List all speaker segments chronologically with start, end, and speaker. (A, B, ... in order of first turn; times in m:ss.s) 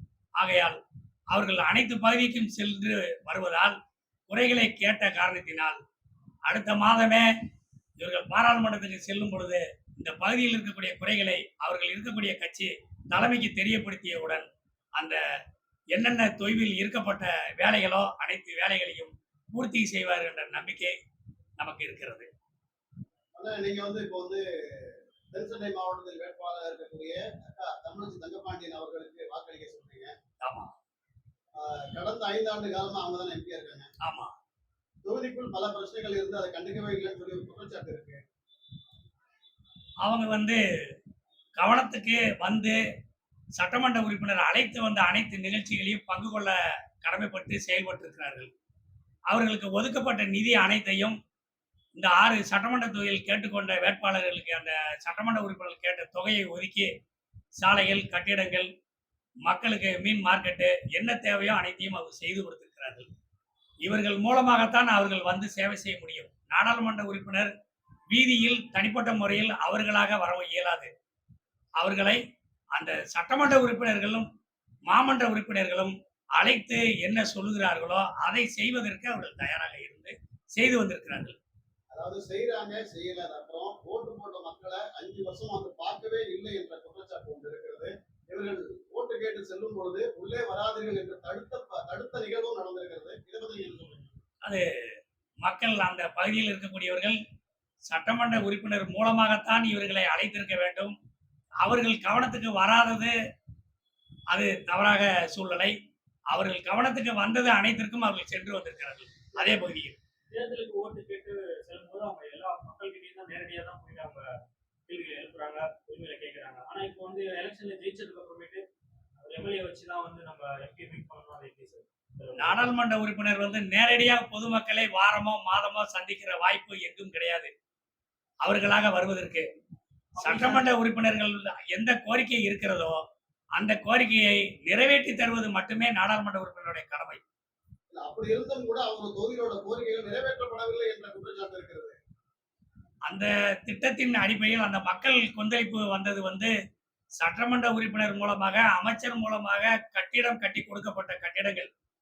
0:00.4-0:00.8 A
0:01.3-0:03.7 A
0:04.3-0:05.8 A
0:06.5-0:07.3 A
0:08.0-0:15.2 A
0:15.9-0:20.9 A
0:21.6-0:22.3 A
0:23.4-0:30.1 B
0:30.4-0:30.7 A
0:31.6-0:33.9 B
0:34.0-0:34.3 A
0:35.0-0:38.2 B
0:40.0-0:40.6 A
0:41.6-0:42.8 A
0:43.6-0:48.5 A
0:49.3-0:51.2 A
0:51.9-0:56.9 A
0:57.6-0:58.7 A
0:59.4-1:03.1 A
1:03.8-1:07.5 A
1:08.1-1:10.9 A
1:11.8-1:12.2 A
1:12.7-1:14.3 A
1:14.9-1:21.4 A
1:21.9-1:34.0 B
1:35.4-1:37.2 A
1:37.8-1:41.0 A
1:41.6-1:43.1 A
1:44.3-1:45.7 A
1:46.3-1:50.0 A
1:50.3-1:54.3 C
1:54.9-1:58.6 C
1:59.2-2:02.6 C
2:02.4-2:07.5 A
2:08.4-2:09.5 A
2:10.2-2:10.6 C
2:10.2-2:13.0 A
2:13.6-2:17.2 A
2:17.9-2:22.0 B
2:23.1-2:26.5 A
2:27.2-2:31.7 A